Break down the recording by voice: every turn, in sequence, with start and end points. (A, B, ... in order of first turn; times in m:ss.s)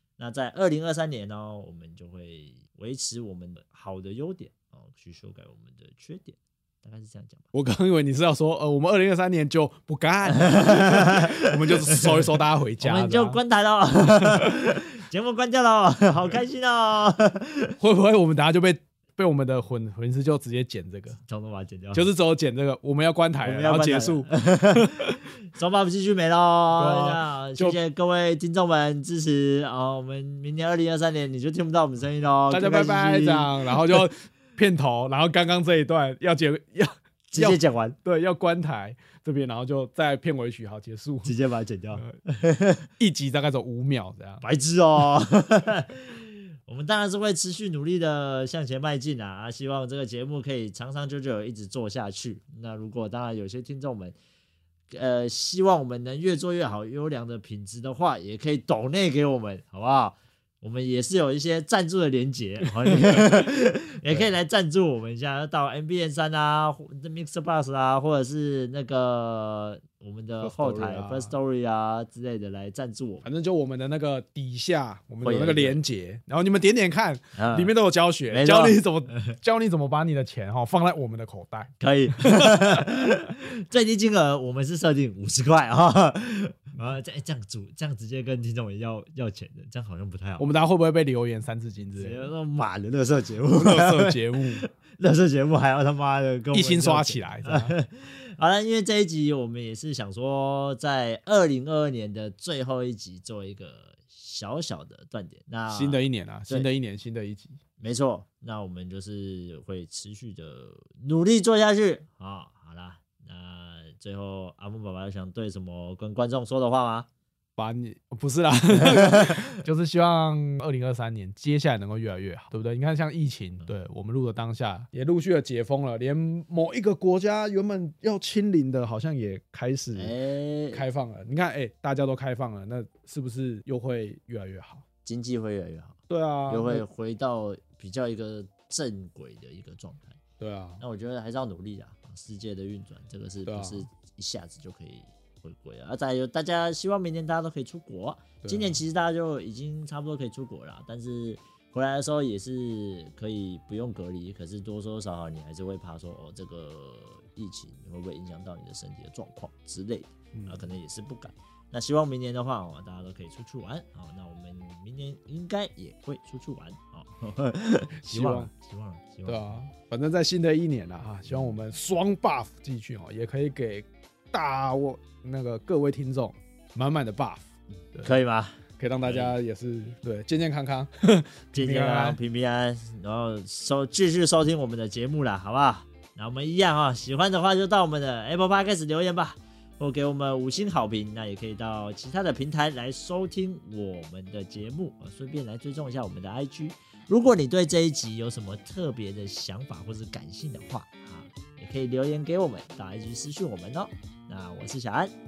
0:00.2-0:07.5 A
0:07.5-0:13.4 B
0:10.4-0:12.2 A
0:12.8-0:17.8 A
0:17.8-0:21.2 B
0:21.2-0:22.1 A
0:21.9-0:25.2 B
0:23.4-0:34.1 A
0:26.8-0:27.8 B
0:32.5-0:41.3 B
0:37.3-0:38.0 A
0:41.2-0:42.9 A
0:43.0-0:44.4 B
0:44.4-0:54.2 A
0:54.9-1:13.3 A
1:10.4-1:11.4 B
1:13.2-1:22.8 B
1:15.2-1:15.8 A
1:17.4-1:17.7 A
1:18.3-1:19.2 A
1:21.8-1:30.5 A
1:30.4-1:32.3 B
1:32.0-1:46.7 A
1:33.5-1:34.6 B
1:36.5-1:37.8 B
1:45.7-1:47.6 B
1:47.8-1:57.1 A
1:57.6-2:10.1 B
1:58.8-1:59.5 A
2:09.9-2:10.8 A
2:10.7-2:14.8 B
2:15.0-2:20.2 A
2:16.1-2:16.9 B
2:20.4-2:20.8 B
2:20.8-2:49.6 A
2:23.5-2:23.9 B
2:28.4-2:28.8 B
2:40.3-2:40.6 B
2:48.0-2:48.5 B
2:49.3-2:58.2 B
2:51.3-2:51.6 A
2:58.0-2:59.4 A
2:58.8-3:02.2 B
3:01.5-3:25.1 A